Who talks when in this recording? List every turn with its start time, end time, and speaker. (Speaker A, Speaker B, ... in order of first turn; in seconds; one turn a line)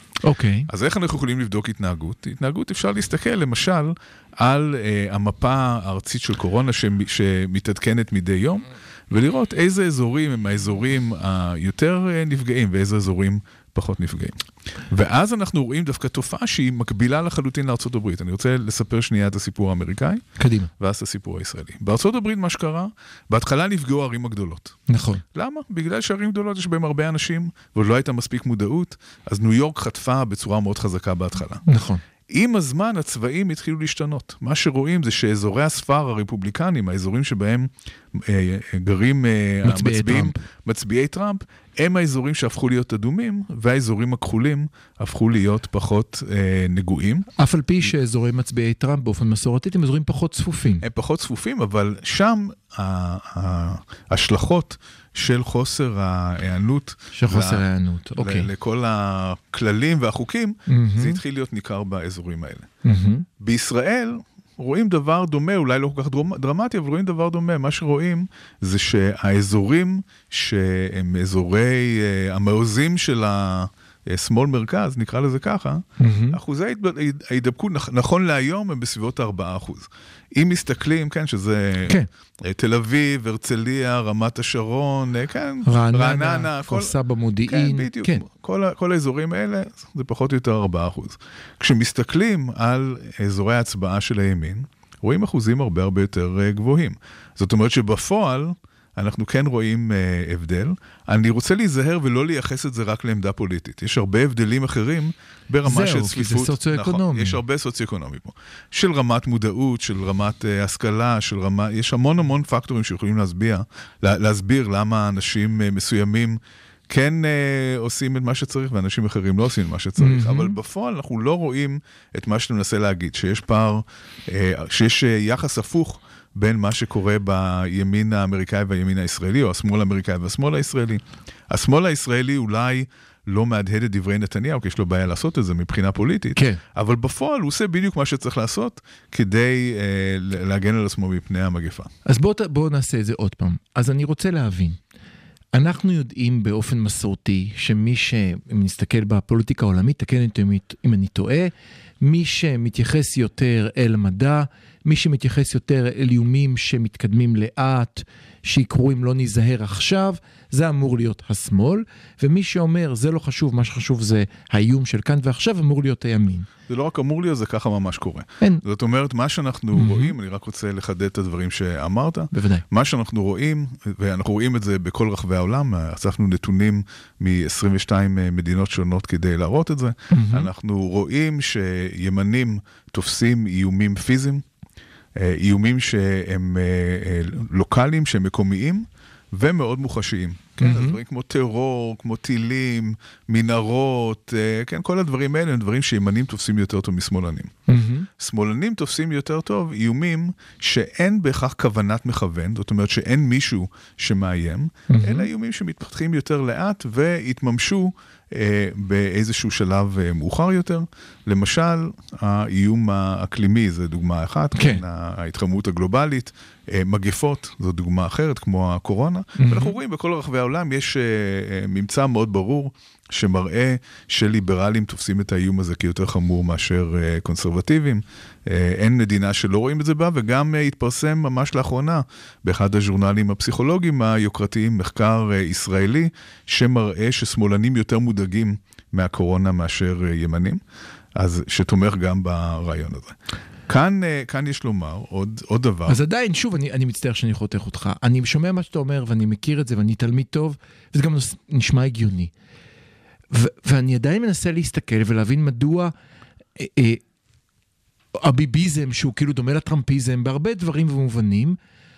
Speaker A: 0.2-0.7
Speaker B: 0.7-20.2
Speaker A: 20.4-20.7
Speaker B: 20.8-31.6
Speaker A: 24.9-25.2
Speaker A: 31.6-32.0
Speaker B: 32.3-47.3
Speaker A: 39.6-40.4
Speaker A: 47.4-50.8
Speaker B: 50.8-57.6
Speaker A: 57.1-58.5
Speaker B: 58.2-62.7
Speaker A: 60.7-61.2
Speaker A: 62.8-63.2
Speaker B: 63.4-141.9
Speaker A: 76.0-76.4
Speaker A: 85.6-88.2
Speaker A: 105.7-107.4
Speaker A: 120.0-120.6
Speaker A: 136.3-136.6
Speaker A: 142.0-144.8
Speaker A: 145.5-166.5
Speaker B: 166.7-184.4
Speaker A: 169.7-170.1
Speaker A: 172.3-172.6
Speaker A: 180.1-180.5
Speaker B: 185.2-197.6
Speaker A: 190.6-191.0
Speaker A: 197.7-198.1
Speaker B: 198.2-240.6
Speaker A: 204.9-205.3
Speaker A: 214.5-214.8
Speaker A: 219.4-219.7
Speaker B: 241.1-243.2
Speaker B: 243.7-246.0
Speaker A: 245.9-252.3
Speaker A: 253.3-255.9
Speaker A: 256.6-257.0
Speaker A: 258.2-261.6